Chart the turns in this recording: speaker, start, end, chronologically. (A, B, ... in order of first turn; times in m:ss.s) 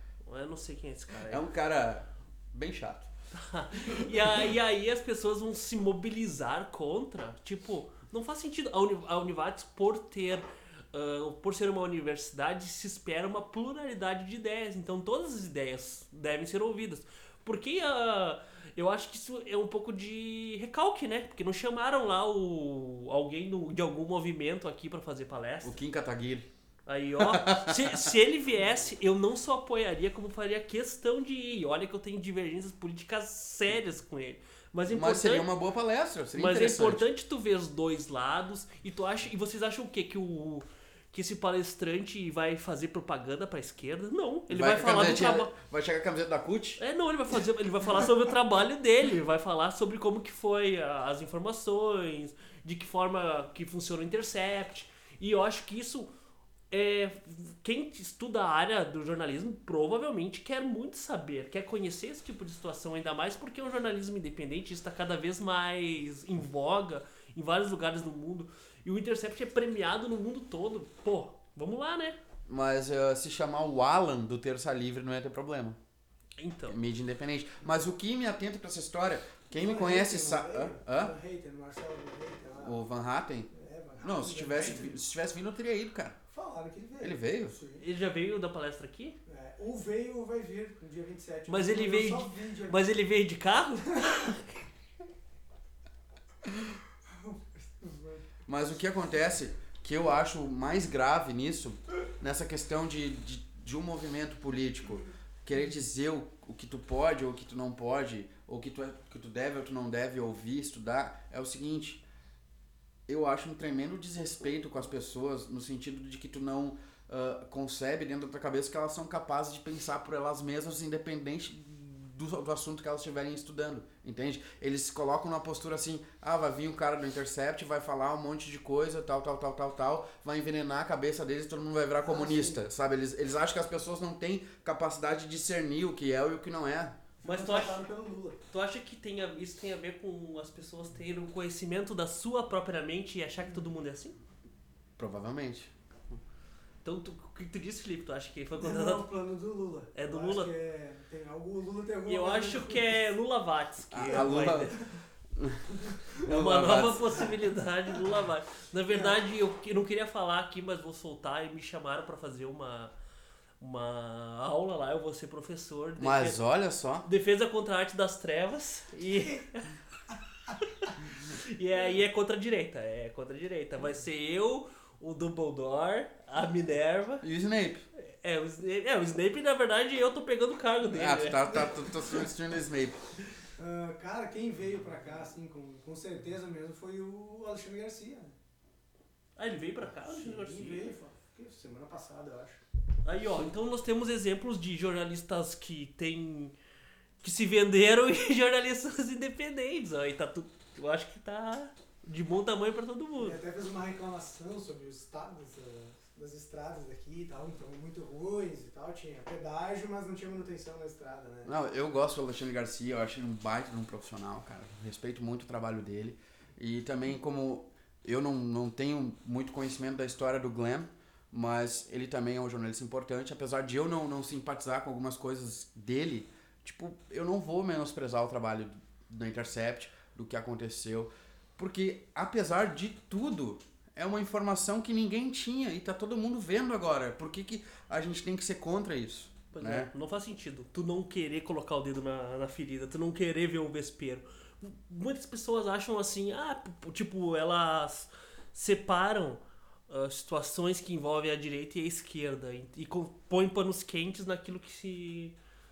0:00.3-0:01.4 A
0:01.3-0:03.1 B
0:03.3-0:25.8 A
0:03.7-0:04.4 B
0:25.6-0:26.5 B
0:26.9-0:35.5 A
0:27.2-0:28.1 B
0:34.9-0:37.0 B
0:36.4-0:45.5 A
0:44.5-0:46.8 B
0:46.8-0:56.1 A
0:56.7-1:12.2 A
1:12.5-1:15.8 B
1:16.4-1:16.8 A
1:16.7-1:21.2 B
1:19.5-1:22.8 C
1:22.6-1:23.5 B
1:23.5-1:25.0 C
1:24.0-1:26.2 B
1:26.3-1:27.9 C
1:27.0-1:27.6 B
1:27.8-1:29.2 A
1:29.3-1:32.8 C
1:31.5-1:34.6 A
1:37.1-1:38.2 C
1:38.5-1:52.0 B
1:53.1-2:17.0 B
2:12.0-2:12.6 C
2:17.2-2:18.4 C
2:17.2-2:17.8 A
2:18.5-2:24.2 A
2:25.0-2:25.7 B
2:26.8-2:29.0 A
2:28.6-2:33.0 C
2:29.9-2:30.5 A
2:32.1-2:34.9 A
2:33.9-2:34.8 B
2:35.4-2:37.2 B
2:36.2-2:42.9 A
2:38.9-2:39.2 C
2:43.6-2:46.4 A
2:46.0-2:47.1 B
2:47.0-2:49.7 A
2:50.6-2:57.2 A
2:57.2-2:57.8 B
2:58.0-3:01.8 A
3:00.9-3:03.0 B
3:03.6-3:08.4 C
3:09.4-3:10.9 A
3:09.9-3:12.6 C
3:13.0-3:16.6 A
3:17.2-3:23.4 A
3:23.2-3:31.5 C
3:31.4-3:59.9 B
3:59.5-4:15.4 A